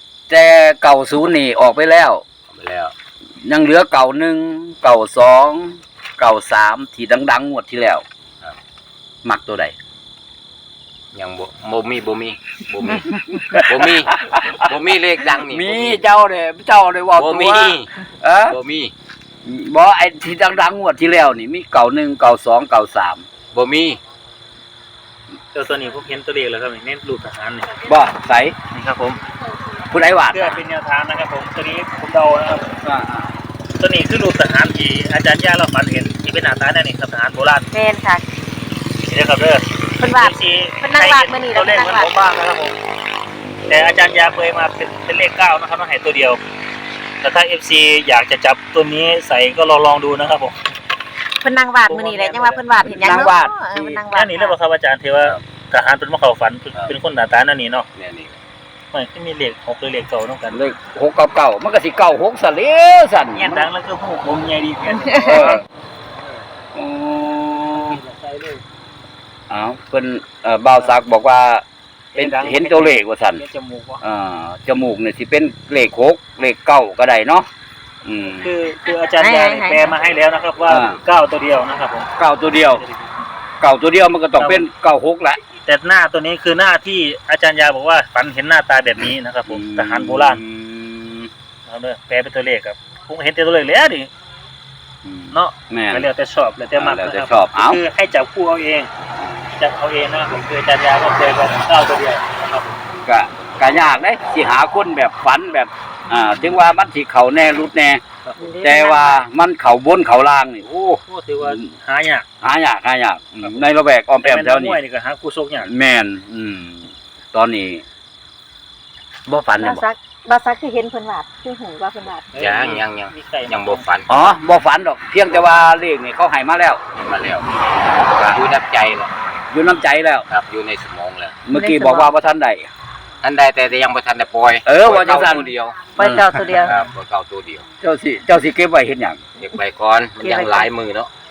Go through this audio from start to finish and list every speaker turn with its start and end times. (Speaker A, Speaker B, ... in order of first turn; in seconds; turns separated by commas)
Speaker A: 0.3-2.2, Speaker B: 2.5-2.9, Speaker A: 3.4-8.0, Speaker A: 9.2-9.7, Speaker B: 11.1-16.0, Speaker A: 13.4-18.6, Speaker B: 17.1-17.9, Speaker B: 18.5-18.9, Speaker A: 19.4-23.2, Speaker B: 23.5-24.0, Speaker C: 25.5-27.7, Speaker A: 27.9-28.6, Speaker C: 28.7-29.2, Speaker A: 29.9-30.6, Speaker C: 30.3-32.7, Speaker A: 32.8-33.3, Speaker C: 33.8-37.7, Speaker D: 37.7-38.2, Speaker C: 39.0-42.7, Speaker D: 40.0-42.1, Speaker C: 43.7-46.4, Speaker C: 47.2-50.6, Speaker D: 51.4-54.5, Speaker C: 51.9-52.6, Speaker A: 52.8-54.0, Speaker C: 54.1-57.9, Speaker B: 57.9-58.4, Speaker C: 58.9-60.6, Speaker A: 60.5-63.7, Speaker C: 63.3-65.7, Speaker D: 65.0-65.5, Speaker A: 65.2-65.6, Speaker A: 66.7-68.0, Speaker C: 67.7-68.6, Speaker A: 69.5-71.6, Speaker C: 72.1-74.0, Speaker A: 72.2-73.4, Speaker A: 74.0-77.5, Speaker A: 78.0-78.5, Speaker C: 78.4-83.3, Speaker D: 79.2-79.9, Speaker A: 80.7-81.0, Speaker A: 82.2-82.8, Speaker A: 83.6-85.4, Speaker C: 84.3-84.7, Speaker C: 85.6-90.4, Speaker A: 89.5-91.3, Speaker C: 91.6-94.1, Speaker A: 95.0-96.1, Speaker C: 95.3-98.9, Speaker A: 96.8-97.8, Speaker A: 99.1-99.5, Speaker C: 99.5-102.8, Speaker A: 103.0-108.0, Speaker C: 108.2-108.5, Speaker D: 108.4-109.2, Speaker A: 108.6-110.7, Speaker B: 110.6-111.0, Speaker C: 111.0-112.2, Speaker A: 111.4-111.7, Speaker A: 112.4-114.8, Speaker C: 114.2-115.7, Speaker A: 115.6-117.8, Speaker A: 119.3-119.8, Speaker D: 119.6-122.3, Speaker C: 122.3-123.8, Speaker B: 122.3-124.1, Speaker A: 124.1-126.8, Speaker B: 126.9-127.5, Speaker A: 128.0-128.4, Speaker B: 128.2-129.1, Speaker A: 129.5-130.2, Speaker B: 130.3-131.4, Speaker A: 131.4-132.7, Speaker D: 131.5-132.1, Speaker B: 133.2-135.9, Speaker A: 134.7-136.6, Speaker D: 135.9-136.7, Speaker B: 136.6-137.7, Speaker A: 137.8-139.2, Speaker B: 139.4-141.1, Speaker D: 140.2-140.7